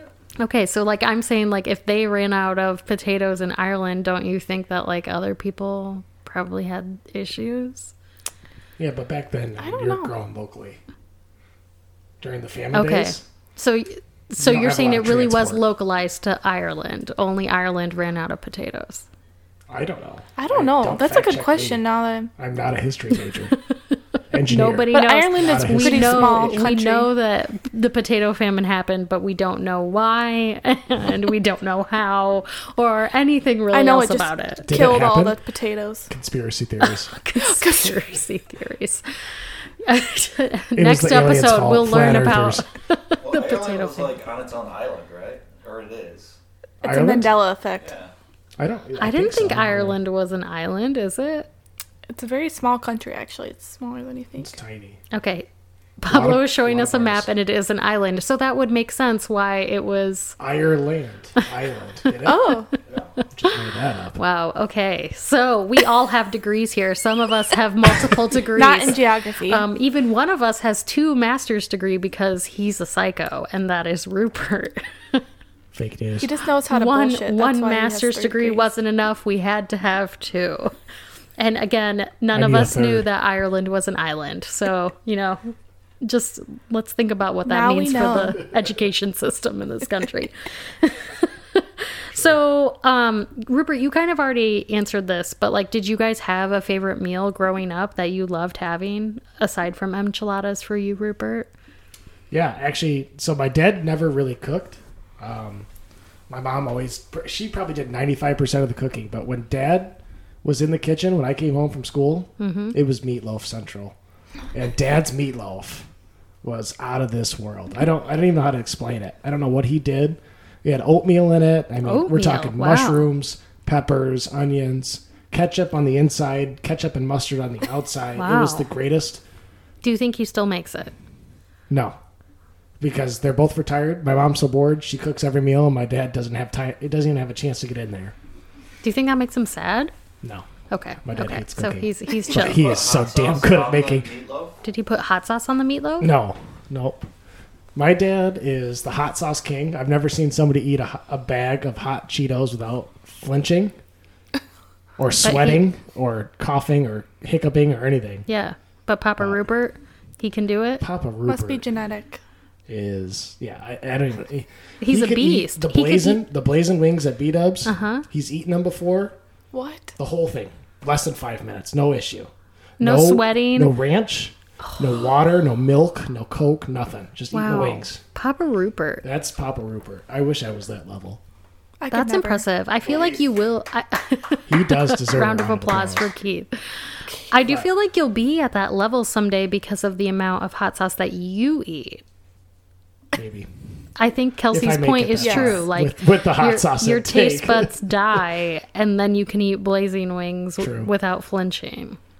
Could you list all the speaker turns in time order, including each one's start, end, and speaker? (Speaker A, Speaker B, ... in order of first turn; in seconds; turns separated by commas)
Speaker A: 0.4-7.9, Speaker B: 8.8-10.8, Speaker C: 9.6-10.1, Speaker B: 12.2-13.2, Speaker A: 12.7-19.1, Speaker B: 14.4-15.6, Speaker B: 19.7-21.8, Speaker C: 20.4-22.3, Speaker B: 22.4-23.6, Speaker B: 24.3-26.6, Speaker A: 24.4-34.7, Speaker C: 24.9-27.1, Speaker C: 33.7-36.1, Speaker B: 34.6-35.4, Speaker B: 36.1-37.1, Speaker A: 37.1-39.0, Speaker C: 37.4-37.9, Speaker A: 39.8-44.2, Speaker B: 40.8-42.6, Speaker D: 43.2-46.4, Speaker B: 46.8-47.4, Speaker C: 46.8-47.9, Speaker D: 47.8-48.1, Speaker B: 48.6-50.0, Speaker A: 49.0-51.5, Speaker C: 52.1-54.5, Speaker B: 54.4-55.0, Speaker A: 55.1-55.5, Speaker A: 56.0-60.4, Speaker B: 56.1-57.3, Speaker B: 60.4-62.5, Speaker C: 62.2-62.7, Speaker B: 63.3-64.2, Speaker A: 64.1-75.2, Speaker C: 68.5-69.6, Speaker B: 75.7-76.3, Speaker C: 76.2-78.6, Speaker A: 76.7-80.7, Speaker A: 81.4-101.5, Speaker B: 82.3-83.1, Speaker C: 87.5-88.5, Speaker B: 102.3-105.7, Speaker B: 106.3-114.0, Speaker A: 112.4-112.8, Speaker B: 114.5-115.9, Speaker B: 116.4-129.2, Speaker A: 121.8-123.0, Speaker A: 128.2-128.7, Speaker A: 129.8-130.9, Speaker B: 131.7-132.0, Speaker B: 132.8-138.1, Speaker A: 138.8-139.9, Speaker B: 140.2-140.5, Speaker A: 140.7-142.7, Speaker B: 141.0-144.1, Speaker D: 142.2-144.6, Speaker A: 144.6-146.1, Speaker B: 146.0-147.1, Speaker B: 147.7-153.7, Speaker B: 155.0-158.2, Speaker A: 155.2-155.6, Speaker A: 158.3-160.8, Speaker B: 160.8-161.6, Speaker C: 161.2-162.2, Speaker B: 162.7-169.2, Speaker A: 164.8-166.2, Speaker A: 167.7-168.1, Speaker C: 169.5-169.9, Speaker B: 170.0-178.0, Speaker A: 172.8-173.7, Speaker A: 177.3-179.0, Speaker B: 179.0-181.2, Speaker C: 181.8-182.4, Speaker A: 181.9-186.6, Speaker B: 182.8-183.2, Speaker B: 184.5-186.1, Speaker A: 187.3-192.0, Speaker B: 193.1-193.5, Speaker A: 193.9-202.0, Speaker B: 194.5-197.7, Speaker C: 195.2-195.6, Speaker B: 200.6-200.9